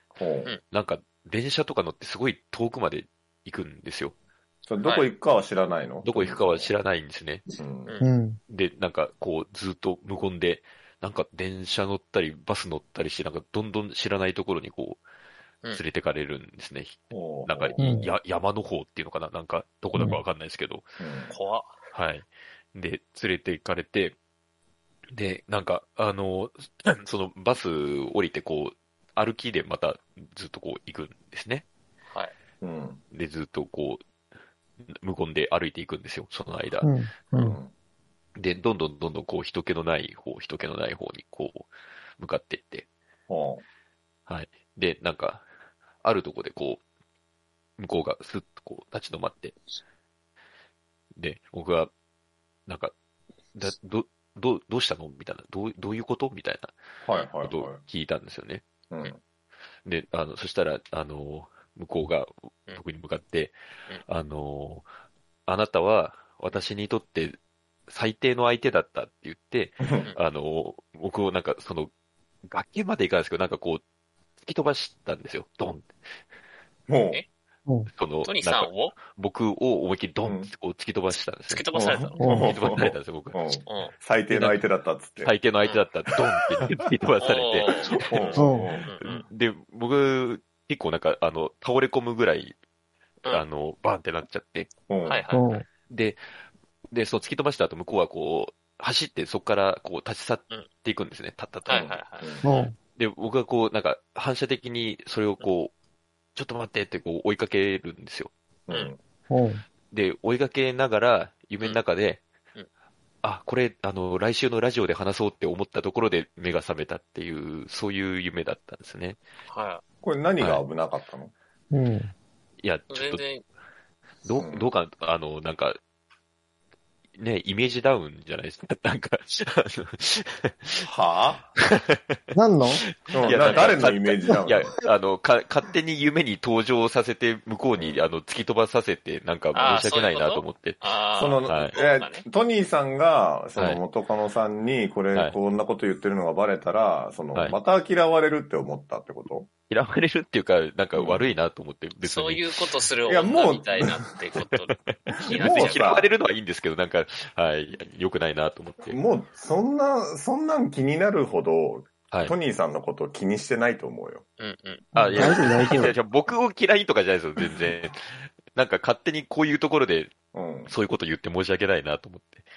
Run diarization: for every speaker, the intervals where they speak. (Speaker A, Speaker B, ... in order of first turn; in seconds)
Speaker A: 0.1-0.5, 4.7-6.7, 7.6-8.0, 17.1-18.0, 21.0-21.3, 32.6-33.0, 37.4-37.7, 43.3-43.6, 57.0-57.8, 58.9-59.2, 69.8-70.1, 76.9-77.2, 80.2-80.5, 81.7-85.3, 87.7-88.9, 94.9-95.2, 101.7-102.5, 108.7-109.0, 120.0-121.3, 124.4-124.7, 130.8-131.5, 133.1-134.7, 137.8-138.0, 141.2-149.5, 150.9-151.3, 153.0-154.0, 155.2-156.1, 158.8-164.2, 165.0-165.9, 170.3-170.7
Speaker B: 0.7-4.1, 6.0-7.4, 8.5-15.0, 15.7-20.8, 21.9-24.1, 25.1-31.6, 33.1-34.0, 35.0-36.9, 38.4-42.9, 44.3-45.4, 46.0-46.8, 47.8-49.5, 51.2-51.9, 52.7-52.9, 53.5-56.7, 57.4-58.6, 59.8-63.5, 64.1-64.8, 65.5-67.3, 67.9-71.9, 72.5-73.8, 74.4-75.9, 77.9-81.6, 82.2-83.4, 84.3-84.6, 85.2-92.5, 93.3-94.7, 95.9-96.2, 96.9-101.9, 103.0-105.7, 106.3-108.3, 109.9-112.2, 113.2-119.2, 120.4-120.6, 122.6-123.2, 124.2-125.8, 127.2-130.8, 131.6-132.2, 133.1-140.8, 141.4-141.8, 143.6-143.8, 149.7-152.5, 155.3-159.0, 164.9-170.1, 170.7-172.4
Speaker C: 4.8-5.1, 21.3-21.7, 78.2-79.0, 81.5-82.2, 83.7-83.9, 87.2-89.2, 95.0-95.6, 101.6-102.7, 119.5-119.8, 122.9-123.4, 133.2-133.8, 139.5-142.2, 152.0-156.0, 164.4-164.9
Speaker D: 8.0-8.4, 17.8-18.1, 36.8-37.6, 82.2-82.5, 88.4-88.7, 95.3-95.7, 102.4-102.8, 109.3-109.6, 121.7-122.1, 132.3-132.8, 165.1-165.9